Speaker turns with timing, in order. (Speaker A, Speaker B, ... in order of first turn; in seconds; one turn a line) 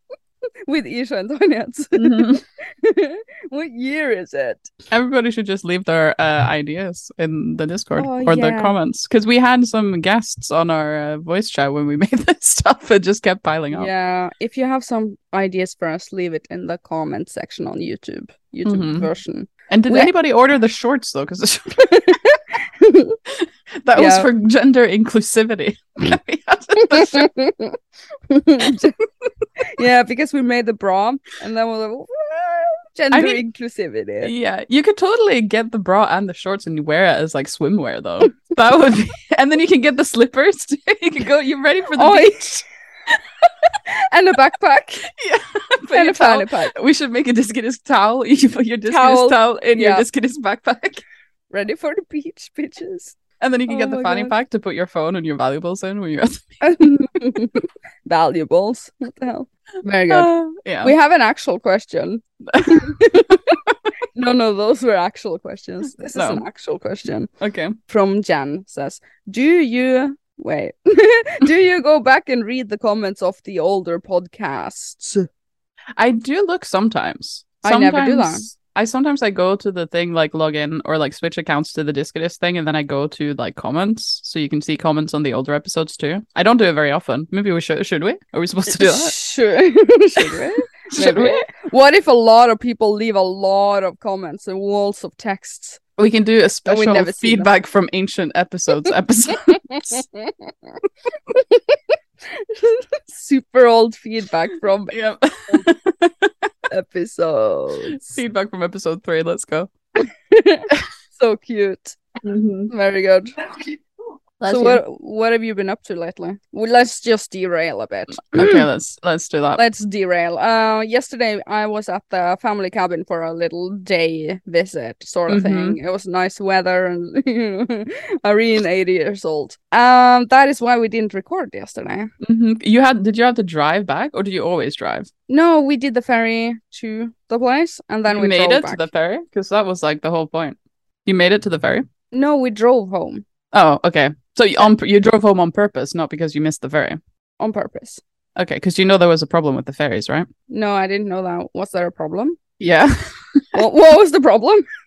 Speaker A: 0.7-4.7
Speaker B: 1.9-2.4
Speaker B: 4.9-13.9
Speaker A: 8.0-8.7
Speaker A: 13.7-20.1
Speaker B: 18.6-19.1
Speaker B: 19.7-22.1
Speaker A: 21.8-23.2
Speaker B: 23.3-27.3
Speaker A: 23.9-24.3
Speaker A: 26.8-27.8
Speaker A: 28.3-28.9
Speaker B: 28.6-28.9
Speaker A: 29.6-34.3
Speaker B: 33.1-33.4
Speaker B: 34.2-42.6
Speaker A: 41.9-42.5
Speaker A: 43.9-45.1
Speaker B: 45.1-51.0
Speaker A: 45.9-46.7
Speaker A: 48.9-50.0
Speaker A: 51.5-53.1
Speaker B: 53.4-56.9
Speaker A: 53.7-54.3
Speaker A: 56.6-63.5
Speaker B: 60.1-60.9
Speaker B: 62.5-63.8
Speaker A: 64.1-67.3
Speaker B: 66.1-66.4
Speaker B: 67.4-67.7
Speaker A: 67.9-75.3
Speaker B: 76.0-89.1
Speaker A: 77.6-78.5
Speaker A: 88.7-95.8
Speaker B: 90.2-91.5
Speaker B: 96.0-100.0
Speaker A: 96.7-97.5
Speaker A: 99.6-100.5
Speaker A: 101.3-104.9
Speaker B: 104.9-106.4
Speaker A: 106.7-108.2
Speaker B: 107.9-109.7
Speaker A: 110.0-112.0
Speaker B: 112.2-112.7
Speaker A: 112.7-113.3
Speaker B: 114.4-114.8
Speaker A: 114.4-118.6
Speaker B: 118.3-119.6
Speaker A: 119.5-132.1
Speaker B: 125.3-125.8
Speaker B: 132.2-135.1
Speaker A: 135.3-138.9
Speaker B: 138.1-141.8
Speaker A: 142.1-143.2
Speaker B: 143.5-147.0
Speaker A: 147.4-148.0
Speaker B: 148.3-150.3
Speaker A: 150.5-152.4
Speaker B: 152.6-153.5
Speaker A: 153.5-154.6